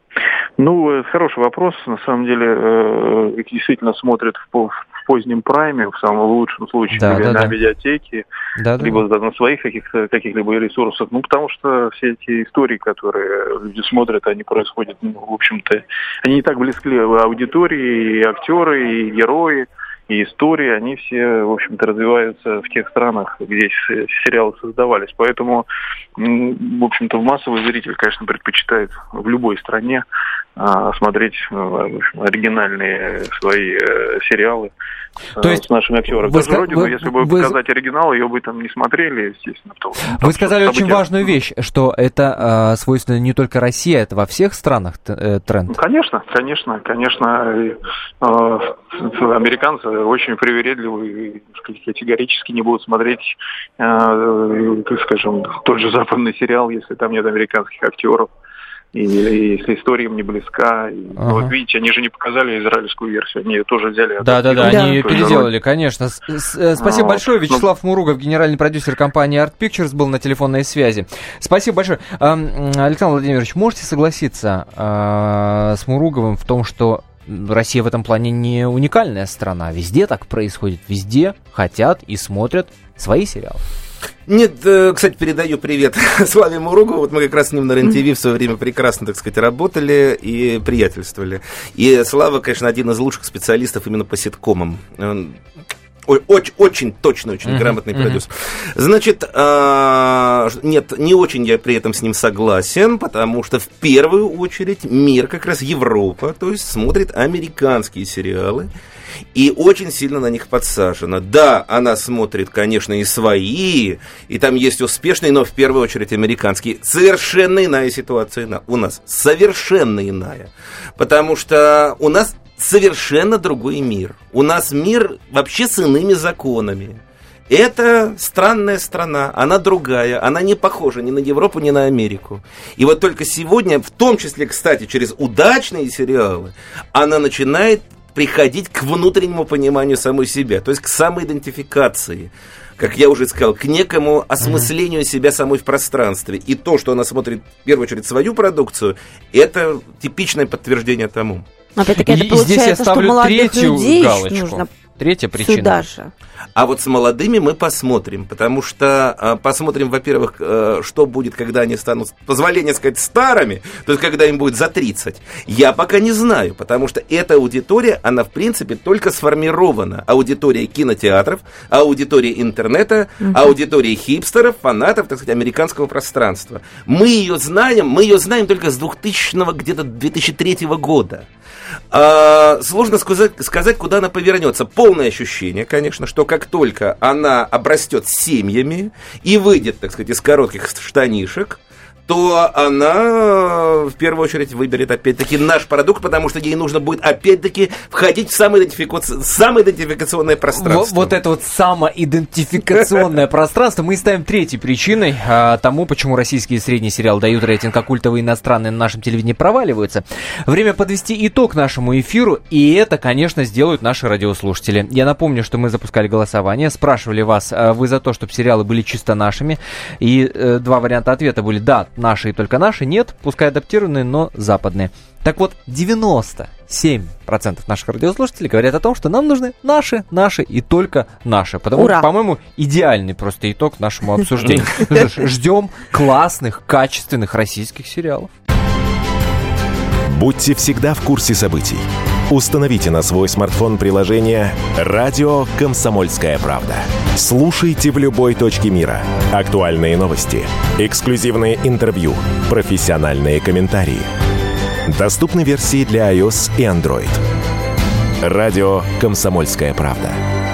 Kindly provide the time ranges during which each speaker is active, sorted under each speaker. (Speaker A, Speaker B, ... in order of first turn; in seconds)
Speaker A: 0.6-8.2, 8.8-30.0, 30.6-34.7, 35.3-41.1, 45.7-58.3, 58.9-65.5, 66.8-67.6
Speaker B: 6.9-7.5, 8.6-9.0, 35.4-35.6, 36.2-37.5, 40.2-45.8, 61.2-61.5, 64.2-83.6, 97.5-98.2, 144.4-144.7, 152.0-155.8, 200.6-238.3
Speaker C: 64.7-65.4, 151.8-154.7, 155.4-156.1, 231.8-232.1
Speaker D: 84.3-95.4, 96.1-108.7, 109.3-151.4, 156.6-181.2, 181.9-201.2
Speaker E: 240.1-254.1, 254.9-257.2, 258.2-260.2